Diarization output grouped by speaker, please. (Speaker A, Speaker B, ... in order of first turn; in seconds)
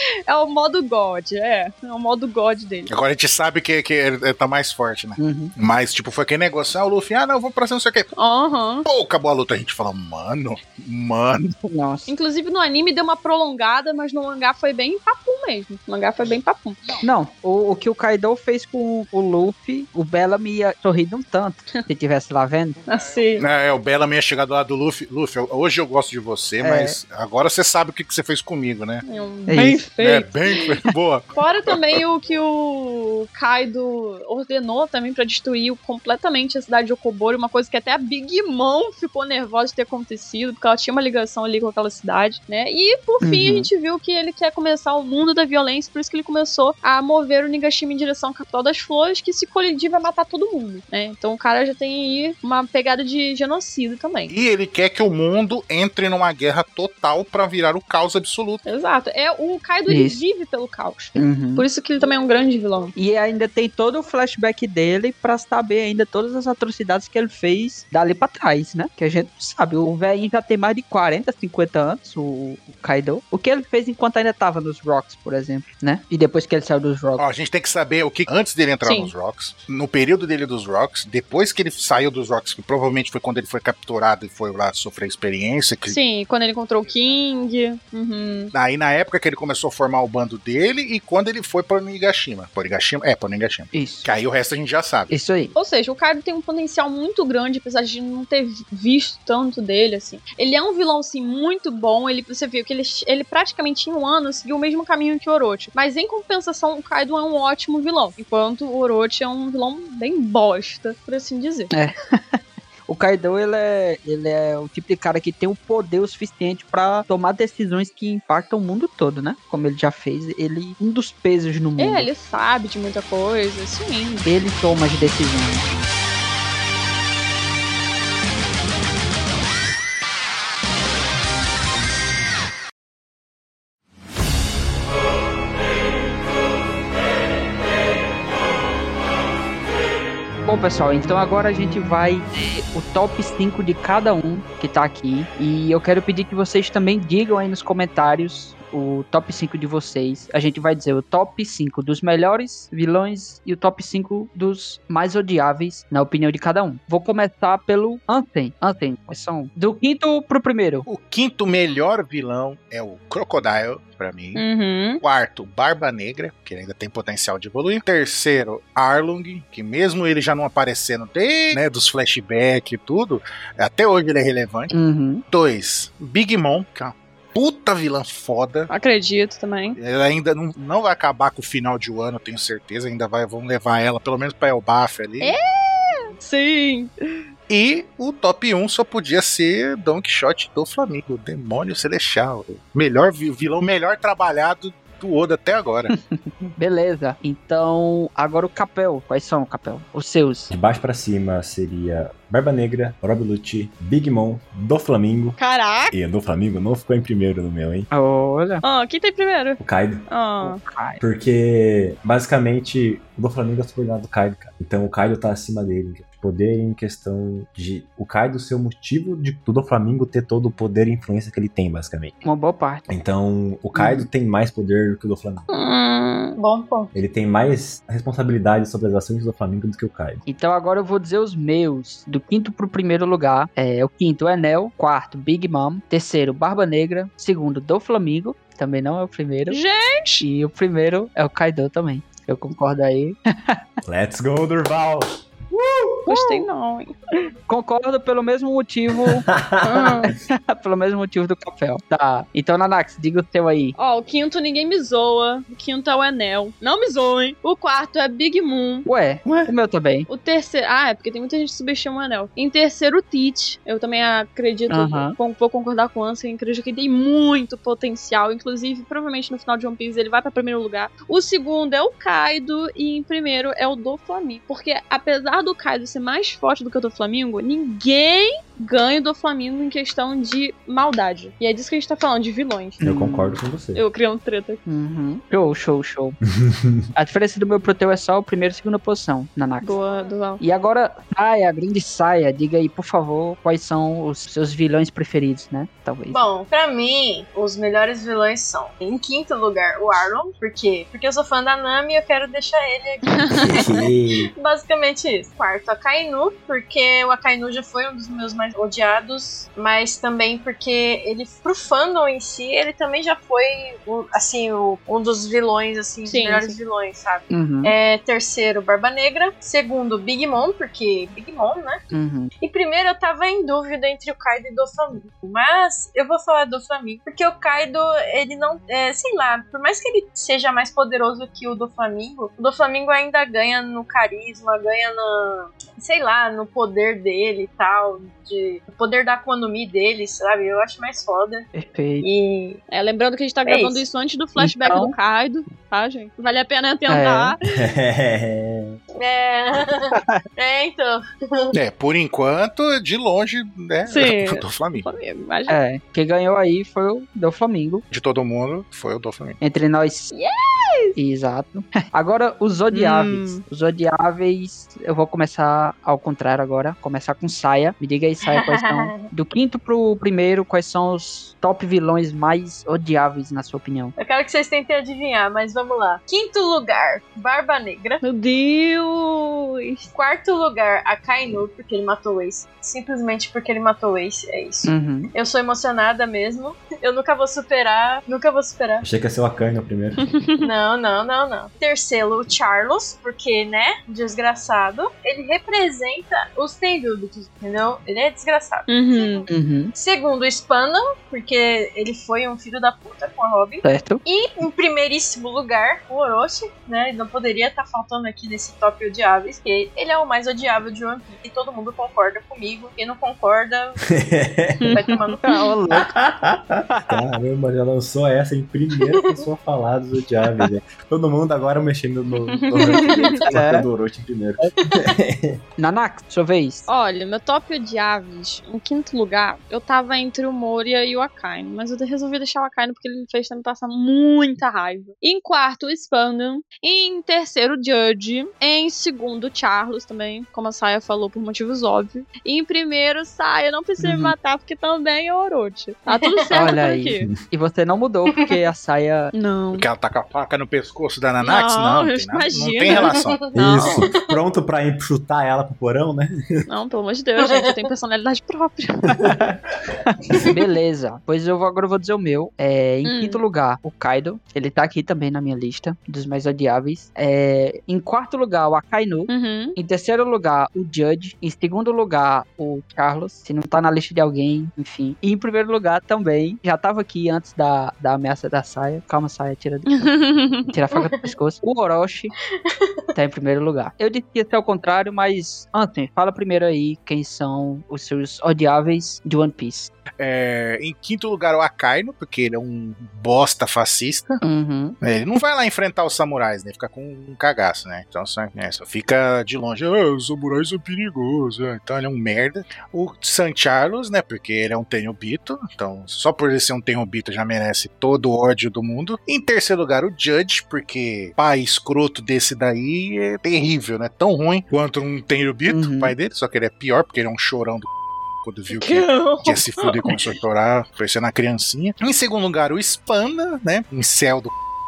Speaker A: 0.3-2.9, 8.2-8.9, 12.1-17.0, 22.9-23.4, 29.1-30.4, 31.3-54.3, 58.6-62.9, 78.8-79.1, 85.9-88.5, 95.5-111.7, 121.8-124.2, 164.3-165.0, 178.7-179.8, 185.2-186.9, 205.4-205.9, 208.6-210.6, 225.5-226.4, 239.5-240.2, 246.1-246.9, 249.6-250.1, 253.8-258.9, 260.1-282.8, 283.7-284.6, 289.6-290.4, 303.1-303.7, 316.1-316.6, 342.7-347.4, 353.9-355.6, 360.1-360.9, 362.7-363.4, 378.0-379.9, 390.0-390.5, 398.7-399.3, 414.6-415.2, 422.2-423.2, 426.7-447.1, 449.1-449.7, 451.2-453.9, 456.5-458.9, 462.9-463.2, 469.1-469.6, 479.7-480.5
Speaker B: 2.9-8.1, 8.9-11.6, 23.4-29.0, 29.9-31.7, 54.3-58.6, 77.2-86.0, 88.5-95.1, 160.9-164.4, 165.0-174.7, 175.3-178.7, 179.8-185.4, 187.5-195.9, 351.5-354.9, 357.9-359.4, 449.6-453.3, 490.0-494.2, 494.8-517.7, 518.2-524.3
Speaker C: 5.2-5.5, 11.7-12.1, 17.0-22.8, 26.6-27.0, 29.5-29.9, 43.2-43.7, 59.9-60.2, 61.2-61.6, 63.0-77.2, 93.7-94.1, 95.1-95.5, 111.7-122.1, 124.2-125.6, 140.4-160.9, 174.7-175.2, 195.9-200.5, 207.9-208.6, 210.4-211.0, 222.2-222.8, 223.7-224.1, 230.3-239.6, 240.2-243.6, 246.1-246.4, 247.5-249.3, 250.2-253.7, 258.9-260.1, 264.7-265.2, 282.8-283.4, 284.7-286.2, 286.9-289.7, 290.4-296.2, 317.3-317.7, 321.9-322.3, 341.5-342.1, 344.4-344.9, 346.9-347.4, 349.9-350.2, 355.5-357.8, 359.4-360.1, 361.0-373.9, 384.7-385.1, 399.3-399.7, 403.6-404.0, 415.2-415.9, 416.7-417.0, 423.3-423.7, 425.6-426.7, 443.8-444.1, 446.3-449.1, 459.0-459.3, 459.9-479.9, 480.5-482.1, 482.9-489.7, 494.2-494.8, 515.5-515.9
Speaker D: 200.5-205.4, 205.9-207.9, 209.6-210.1, 211.0-222.2, 222.9-225.4, 226.9-230.2, 243.8-246.1, 249.0-250.0, 259.3-259.5, 282.8-283.8, 286.3-286.8, 303.4-304.3, 347.4-348.8, 388.8-390.0, 413.9-414.6, 415.7-425.4, 453.3-456.4
Speaker E: 226.4-226.9, 296.1-303.9, 304.4-321.8, 322.4-341.5, 342.0-342.6, 343.4-343.9, 349.0-351.5, 368.3-369.1, 374.0-378.0, 379.9-388.9, 390.4-413.8, 414.7-415.2, 446.0-446.5, 452.8-453.9, 457.2-457.5, 480.7-481.1, 482.4-482.8, 518.5-520.0